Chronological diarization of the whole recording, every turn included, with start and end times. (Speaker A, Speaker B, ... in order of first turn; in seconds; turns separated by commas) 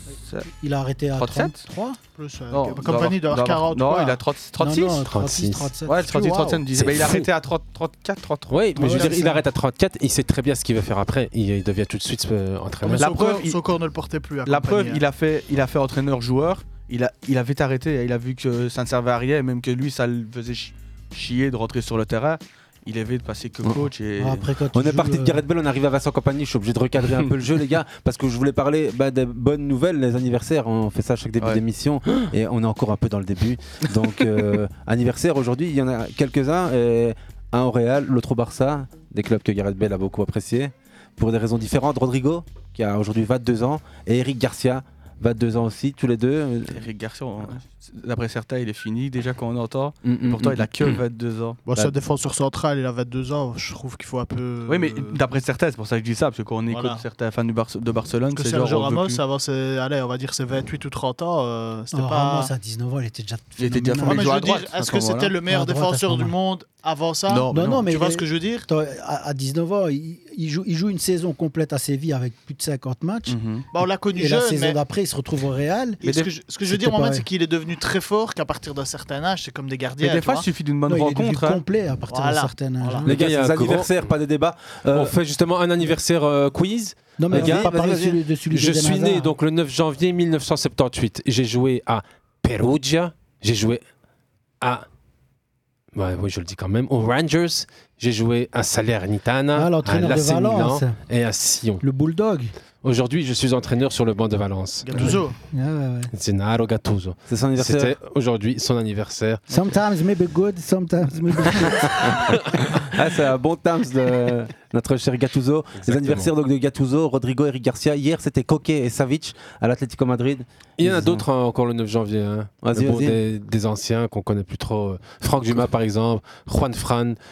Speaker A: 0.2-0.5, Speaker B: 0.5-2.0, Speaker A: 1.2-1.6, Speaker C: 2.1-4.2, Speaker A: 2.5-5.0, Speaker B: 4.6-6.6, Speaker D: 5.1-5.7, Speaker A: 5.9-9.1, Speaker D: 6.8-7.3, Speaker D: 8.5-13.1, Speaker B: 8.8-9.3, Speaker C: 8.9-9.2, Speaker C: 12.8-15.0, Speaker A: 13.0-13.6, Speaker A: 14.5-24.5, Speaker B: 24.2-25.4, Speaker E: 24.7-46.8, Speaker A: 46.7-51.6, Speaker E: 50.0-50.7, Speaker C: 51.7-55.2, Speaker A: 54.7-59.2, Speaker C: 56.7-57.0, Speaker C: 58.4-62.5, Speaker B: 61.9-64.3, Speaker A: 63.6-65.3, Speaker C: 64.0-68.7, Speaker B: 65.5-66.3, Speaker A: 67.3-67.8, Speaker B: 67.5-73.3, Speaker A: 73.3-73.7, Speaker C: 73.7-74.8, Speaker B: 74.2-76.0, Speaker C: 76.0-80.5, Speaker B: 76.7-77.2, Speaker A: 80.0-81.6, Speaker B: 80.9-83.1, Speaker C: 82.1-83.1, Speaker D: 83.1-83.9, Speaker E: 83.1-85.1, Speaker D: 84.9-87.9, Speaker B: 87.2-89.3, Speaker E: 87.3-88.2, Speaker D: 88.5-93.8, Speaker D: 95.9-101.8, Speaker B: 99.5-101.0, Speaker B: 101.8-102.5, Speaker D: 102.8-105.2, Speaker C: 104.8-105.3, Speaker B: 105.0-106.1, Speaker D: 106.1-109.5, Speaker E: 107.3-108.0, Speaker B: 109.5-112.0, Speaker E: 112.9-121.2, Speaker D: 115.8-116.3, Speaker D: 120.8-127.2, Speaker E: 122.6-123.2